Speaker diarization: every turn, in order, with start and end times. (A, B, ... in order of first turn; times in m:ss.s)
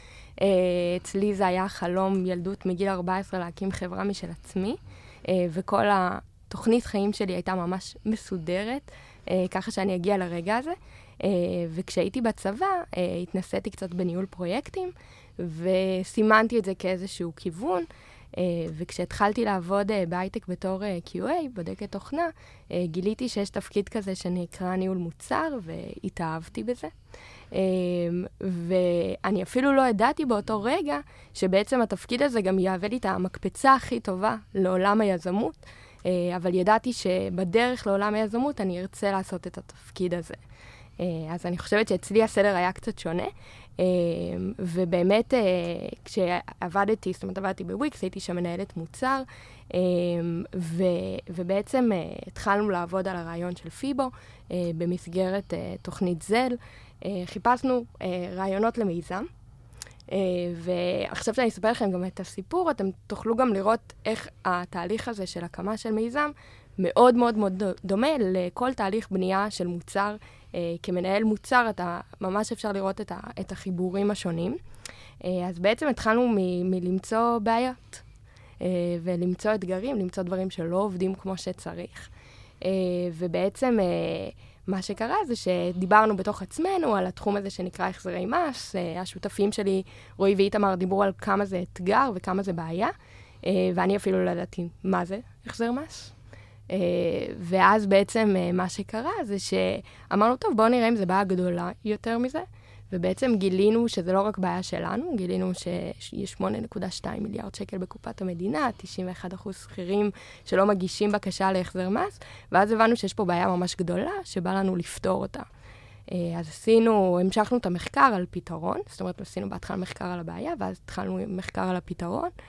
0:00.4-0:26.9 A
0:27.5-0:40.4 A
0:41.0-0:59.3 A
1:00.1-1:14.6 A
1:15.2-1:18.0 A
1:18.6-1:22.1 A
1:22.6-1:36.1 A
1:36.7-1:55.5 A
1:56.1-2:02.3 A